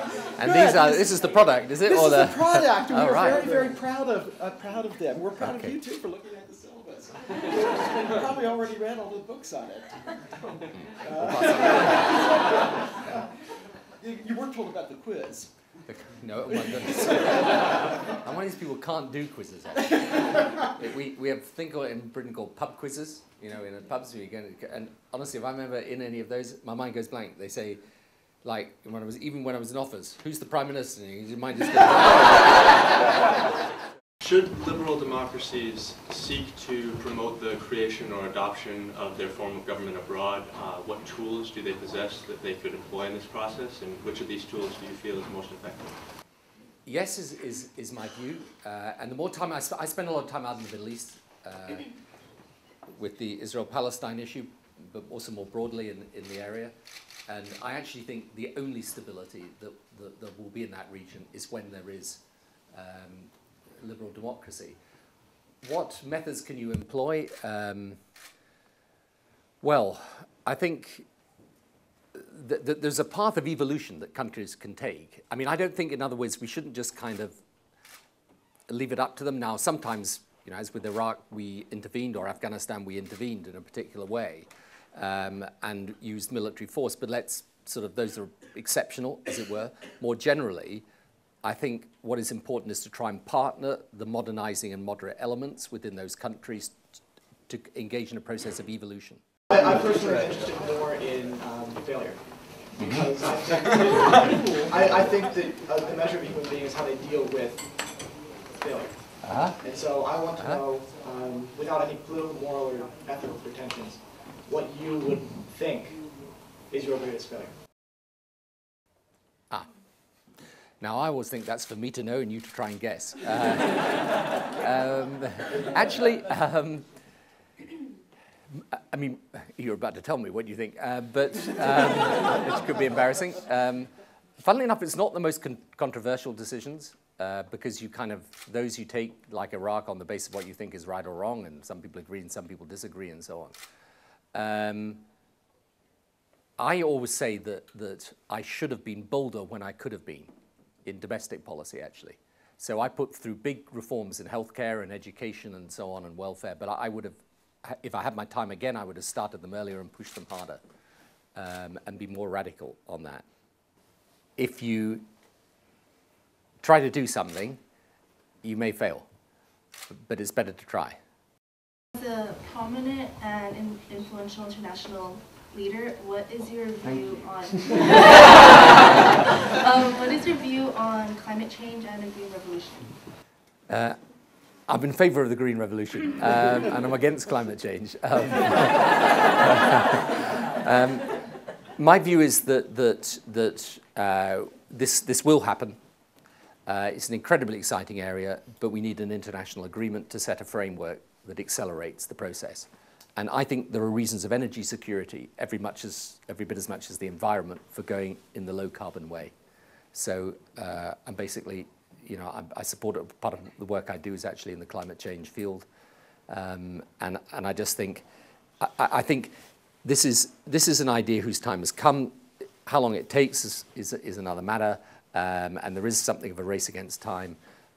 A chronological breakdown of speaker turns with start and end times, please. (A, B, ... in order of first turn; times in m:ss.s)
0:00.4-0:03.5 A
0:00.4-0:10.1 B
0:05.4-0:05.8 A
0:11.0-0:12.3 A
0:11.0-0:12.8 B
0:14.0-0:15.5 B
0:15.9-0:27.8 A
0:28.4-0:33.0 A
0:34.2-0:45.9 C
0:46.9-0:51.9 A
0:52.9-0:56.7 A
0:57.3-1:02.2 A
1:02.7-1:04.8 A
1:05.6-1:08.0 A
1:09.6-1:11.1 A
1:12.2-1:17.4 A
1:18.7-1:30.8 A
1:31.4-1:37.0 A
1:37.5-1:39.2 A
1:39.5-1:44.2 D
1:42.8-1:43.1 A
1:44.0-1:45.0 B
1:44.7-1:57.5 D
1:49.2-1:49.6 A
1:50.4-1:50.6 A
2:00.8-2:06.8 A
2:08.7-2:13.9 A
2:14.4-2:23.5 A
2:24.3-2:25.0 A
2:26.6-2:30.3 A
2:30.8-2:40.6 A
2:41.4-2:43.2 A
2:44.4-2:45.0 A
2:46.6-2:47.6 A
2:48.4-2:49.1 A
2:49.9-2:51.0 A
2:51.9-2:59.0 E
2:59.5-3:03.0 E
3:03.7-3:04.0 A
3:04.7-3:11.1 A
3:11.8-3:15.8 A
3:16.7-3:29.3 A
3:29.9-3:35.7 A
3:36.3-3:38.0 A
3:38.6-3:39.3 A
3:39.8-3:42.2 A
3:42.7-3:47.4 A